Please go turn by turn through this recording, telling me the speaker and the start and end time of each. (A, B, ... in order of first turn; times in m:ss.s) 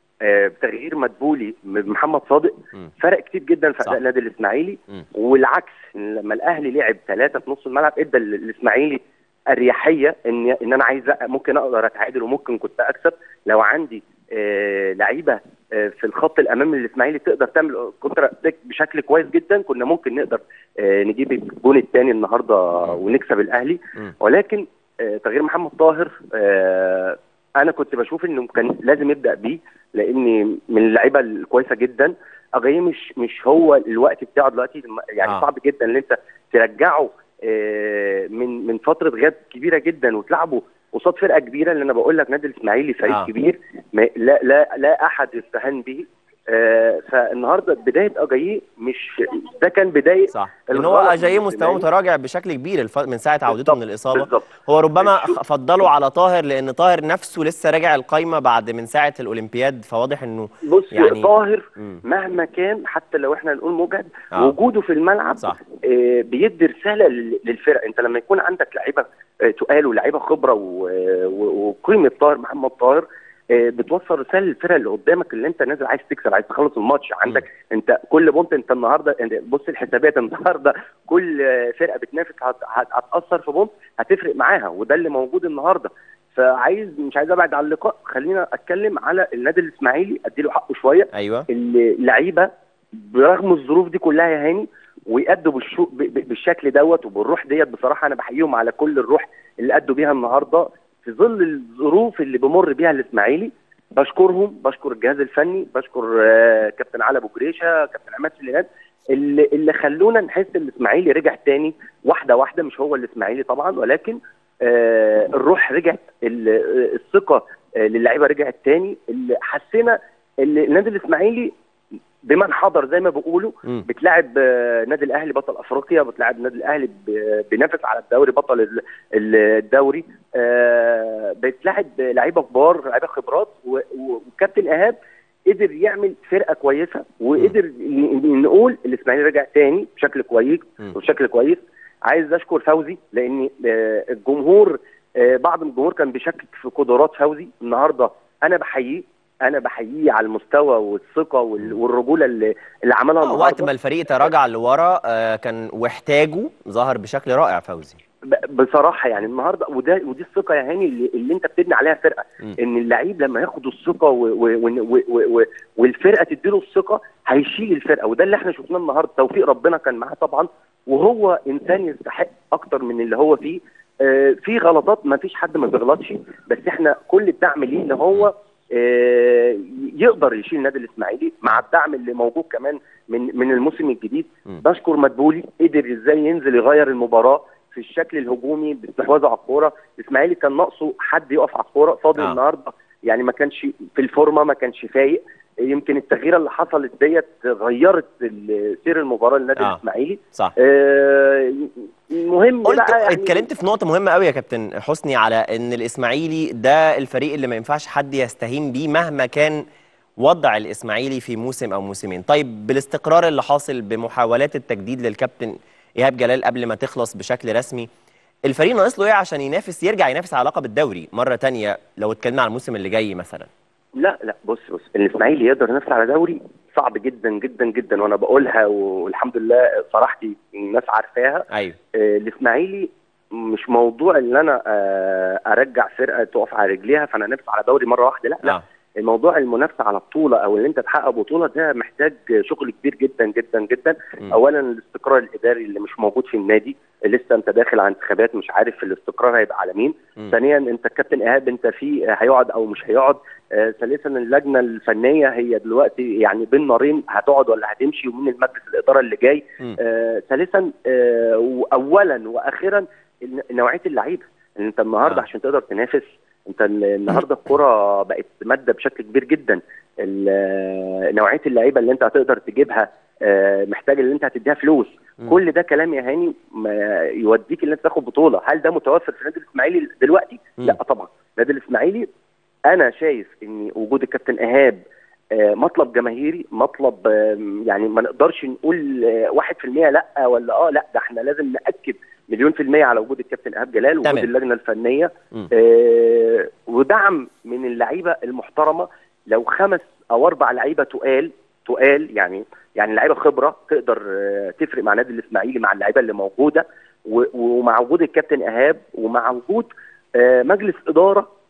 0:00.2-0:51.9 A
0:50.3-1:02.0 B
0:53.5-0:55.4 A
1:00.6-2:01.5 A
1:31.1-1:31.5 B
2:02.2-2:15.0 A
2:15.5-2:33.7 A
2:33.2-2:38.0 B
2:38.3-3:23.4 A
3:22.6-3:29.6 B
3:30.2-3:37.9 B
3:38.5-3:43.5 B
3:44.0-4:42.1 A
3:51.5-3:51.8 B
4:42.7-4:44.8 A
4:45.4-5:11.3 A
4:54.0-4:54.3 B